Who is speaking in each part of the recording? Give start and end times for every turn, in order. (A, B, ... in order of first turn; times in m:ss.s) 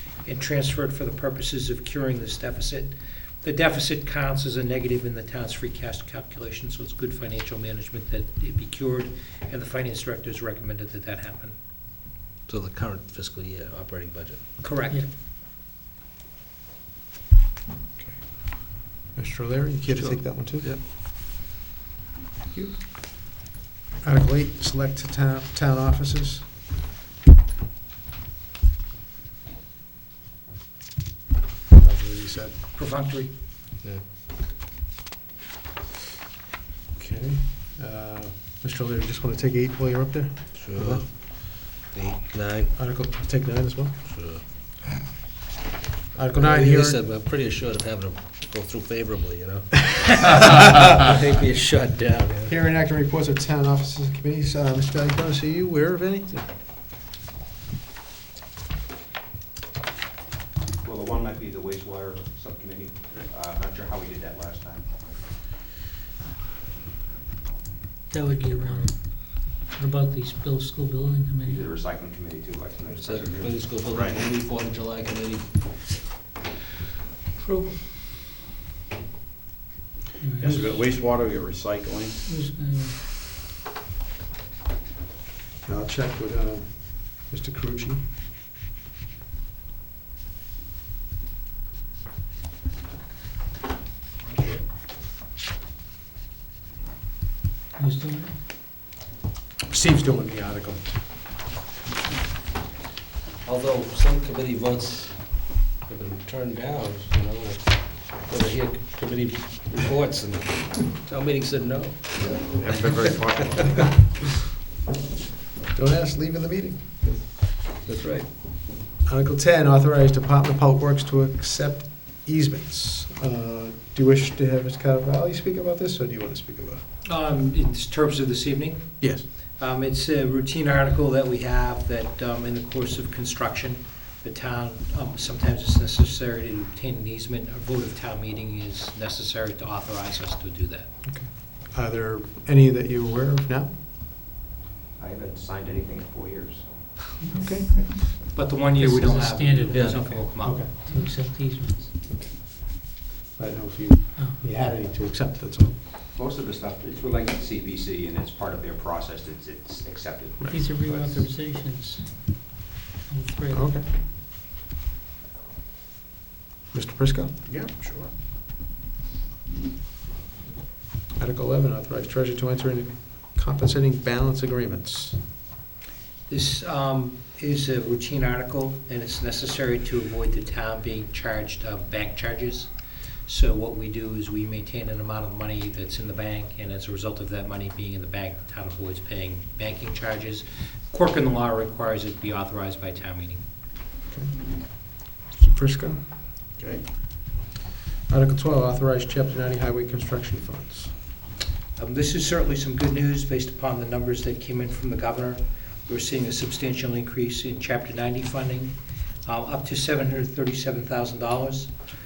0:00.2-0:11.6 A
0:12.5-0:14.4 B
0:14.6-0:15.0 A
0:18.0-0:20.7 C
0:19.9-0:20.8 B
0:22.5-0:23.3 C
0:24.0-0:26.5 C
0:31.7-0:32.6 C
0:32.7-0:33.3 A
0:37.0-0:41.0 C
0:40.5-0:42.7 B
0:42.7-0:44.0 C
0:44.0-0:44.4 B
0:46.1-0:47.0 C
0:46.3-0:52.5 B
0:52.5-0:56.5 C
1:00.8-1:05.2 D
1:08.1-1:11.7 E
1:11.4-1:13.7 D
1:12.9-1:15.5 B
1:13.8-1:14.2 F
1:17.4-1:17.8 E
1:20.2-1:20.9 E
1:20.4-1:22.2 F
1:22.2-1:23.0 E
1:25.6-1:28.0 C
1:37.8-1:38.3 E
1:39.6-1:40.8 C
1:43.4-1:53.2 B
1:52.6-1:53.9 F
1:55.7-1:56.9 C
1:57.0-1:58.3 B
1:59.0-2:06.8 C
2:07.0-2:21.0 A
2:09.0-2:09.2 C
2:21.0-2:23.8 C
2:25.0-2:28.2 D
2:27.2-2:27.5 E
2:27.3-2:27.7 C
2:28.3-2:30.6 A
2:28.7-2:31.9 E
2:29.7-2:30.1 B
2:30.4-2:31.5 C
2:32.1-2:32.3 C
2:33.4-2:35.8 C
2:36.1-2:41.3 D
2:40.4-2:40.7 C
2:40.4-2:42.5 E
2:43.1-2:43.7 E
2:43.5-2:43.9 C
2:46.7-2:47.4 C
2:47.4-2:48.1 F
2:51.2-2:55.2 C
2:56.3-3:02.7 A
3:03.2-3:13.4 A
3:14.1-3:16.0 C
3:16.6-3:16.8 F
3:18.1-3:20.9 C
3:21.8-3:28.7 A
3:29.2-3:31.7 A